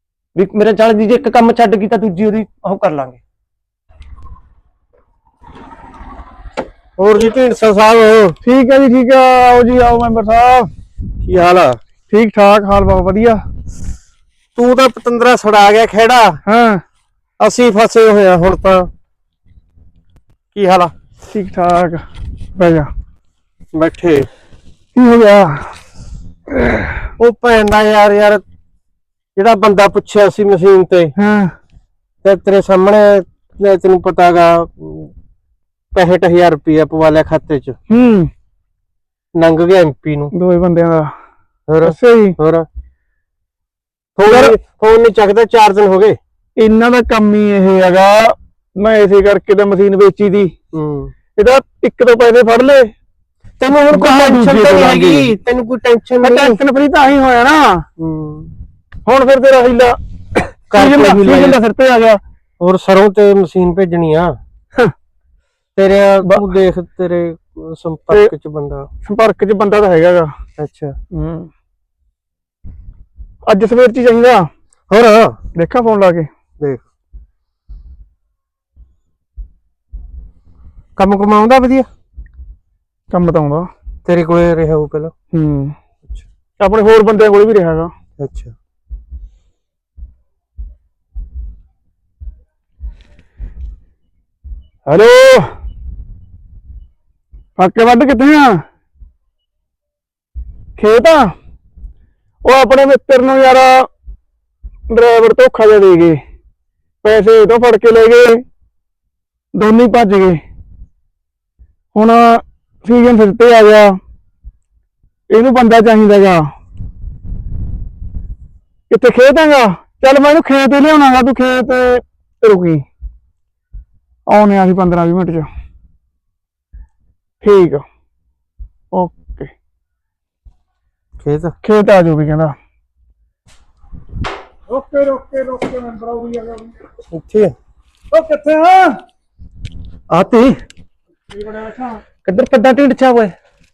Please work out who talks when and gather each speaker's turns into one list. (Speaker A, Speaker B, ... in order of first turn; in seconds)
Speaker A: 0.4-3.2, 140.1-140.6, 142.2-143.3
Speaker B: 7.0-8.4, 11.2-11.8, 14.6-16.4, 17.4-18.9, 20.5-20.9, 23.7-24.3, 27.2-28.4, 29.4-31.1, 32.2-35.1, 36.0-37.8, 39.4-40.3, 41.7-42.7, 44.2-46.2, 50.7-51.1, 53.6-56.6, 58.0-58.5, 60.7-61.6, 62.6-64.4, 65.8-68.9, 70.6-71.0, 74.9-75.4, 81.0-81.9, 84.0-85.1, 88.2-88.5, 131.2-131.6, 137.1-137.5
Speaker C: 8.4-10.7, 12.1-13.4, 16.5-16.8, 21.3-22.9, 24.9-25.7, 26.6-27.0, 31.2-31.5, 37.9-38.3, 40.3-41.1, 41.9-42.4, 44.3-44.6, 46.6-50.5, 51.4-52.9, 53.9-55.3, 56.2-57.9, 59.1-62.2, 69.0-70.3, 71.1-71.5, 73.5-74.5, 75.5-76.3, 83.1-83.7, 85.3-85.8, 86.6-87.9, 94.9-95.5, 97.6-98.6, 100.8-101.3, 102.4-103.9, 104.9-106.2, 107.0-108.4, 109.5-110.4, 112.0-114.0, 115.3-116.5, 118.9-122.8, 124.3-125.5, 127.4-127.8, 128.9-129.5, 131.6-132.6, 134.7-136.9, 138.1-139.0, 141.3-142.0